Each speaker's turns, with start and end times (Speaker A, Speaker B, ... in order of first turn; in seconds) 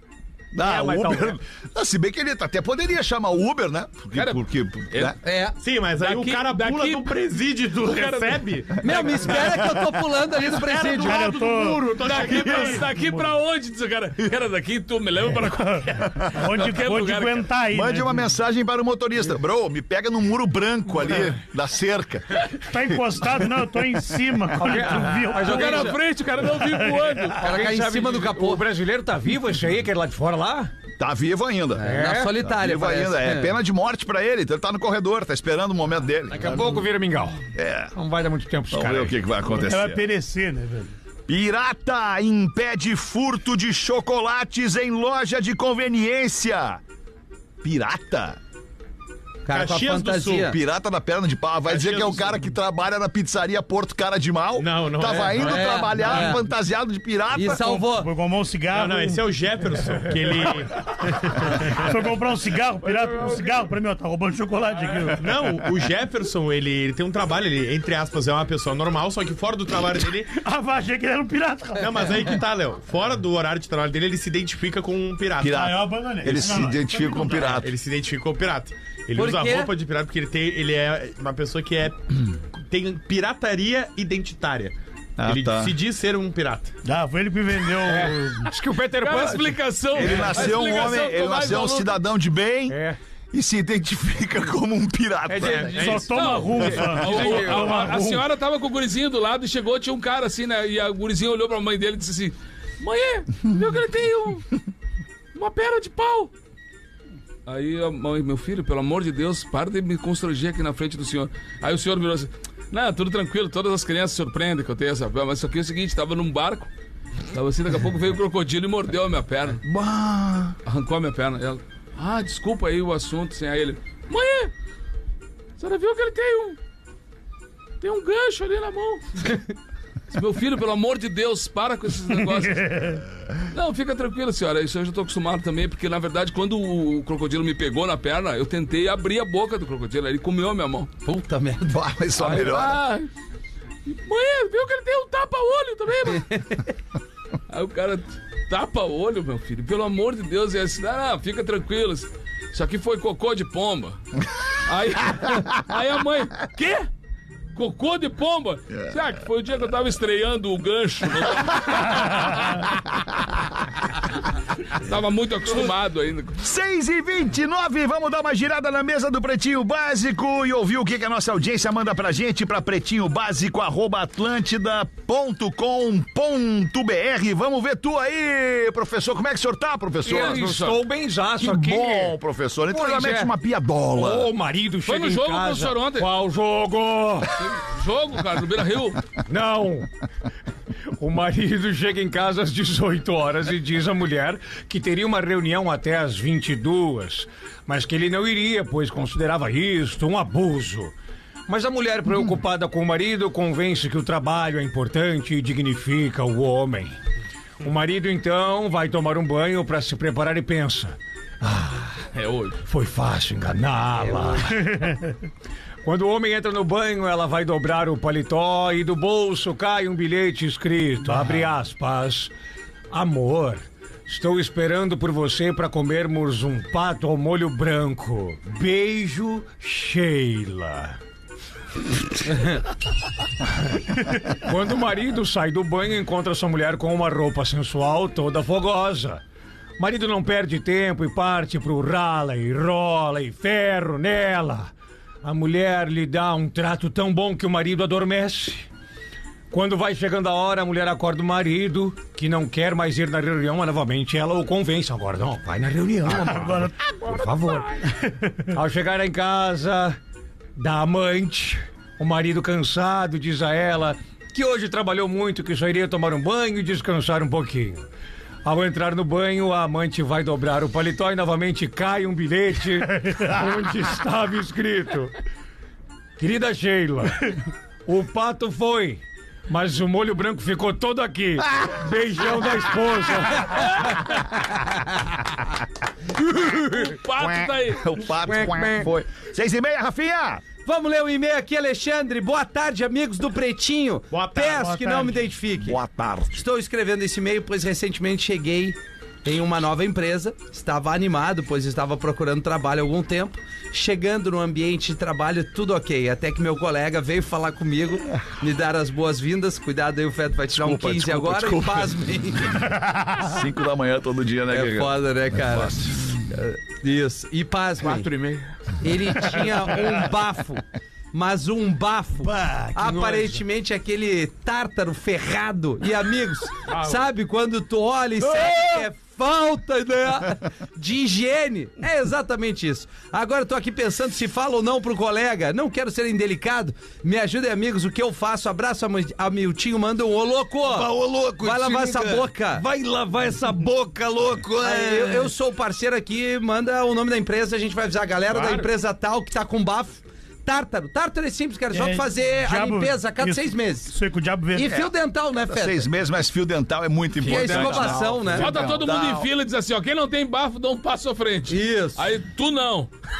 Speaker A: 0.5-5.2, 17.7-23.0, 31.0-36.6, 37.5-37.9, 38.7-40.0, 41.3-46.8, 47.6-48.4, 50.4-57.6, 75.4-77.7, 85.2-85.8, 89.9-92.8, 93.3-95.8, 119.6-120.6, 141.7-142.8, 166.4-180.4, 181.4-184.3, 287.1-290.4, 295.6-296.4, 310.5-311.8, 313.1-316.2, 355.4-359.3
Speaker B: 0.6-1.3, 24.5-26.0, 27.4-30.7, 31.8-32.3, 36.3-37.4, 37.9-39.2, 87.8-90.6, 92.7-93.0, 95.3-97.9, 180.0-182.2, 182.7-183.3, 183.9-187.3, 189.2-189.9, 190.9-200.9, 201.5-206.9, 207.6-212.0, 212.7-214.9, 215.8-222.3, 222.9-230.9, 232.3-232.6, 234.2-239.2, 239.8-244.7, 245.2-248.7, 249.5-257.8, 258.5-260.0, 260.6-267.9, 268.4-275.1, 276.2-277.3, 277.9-283.7, 288.3-288.7, 322.6-323.3, 340.6-345.3, 357.2-358.2
Speaker C: 4.1-4.4, 4.9-5.2, 6.0-7.2, 7.8-9.4, 12.0-17.4, 25.4-27.4, 89.0-92.0, 95.4-104.5, 105.3-106.3, 107.5-116.7, 117.3-119.6, 120.6-124.5, 125.6-126.6, 127.8-129.4, 130.1-140.9, 142.2-143.1, 143.8-146.6, 147.5-154.0, 154.7-156.9, 157.5-162.7, 164.7-166.4, 180.0-180.8, 184.8-186.1, 187.4-189.0, 212.1-212.6, 286.5-287.9, 358.3-362.9
Speaker D: 5.2-5.6, 8.8-11.3, 27.4-28.6, 31.8-33.6, 49.4-50.6, 55.4-56.4, 57.3-58.1, 79.1-79.7, 141.0-141.8, 288.3-288.8, 290.6-295.8, 296.3-312.7, 314.5-318.1, 318.8-340.9, 341.4-342.6, 344.6-353.9, 354.5-355.9, 357.2-358.6, 361.5-362.1
Speaker E: 5.6-9.6, 10.4-12.9, 49.5-50.5, 51.7-52.5, 54.5-56.3, 58.7-61.9, 65.2-70.3, 71.8-75.7, 77.4-86.7, 95.8-96.7, 294.1-294.8, 318.0-318.3, 326.7-327.0, 348.3-348.7
Speaker F: 11.0-13.3, 15.5-18.1, 22.7-27.3, 39.5-40.9, 57.5-59.2, 61.5-65.3, 70.3-72.1, 75.5-77.6, 86.8-88.5, 95.8-98.2, 132.6-133.0, 214.6-215.1, 256.1-257.0, 258.0-258.5, 294.5-295.2, 322.3-322.7, 351.7-354.8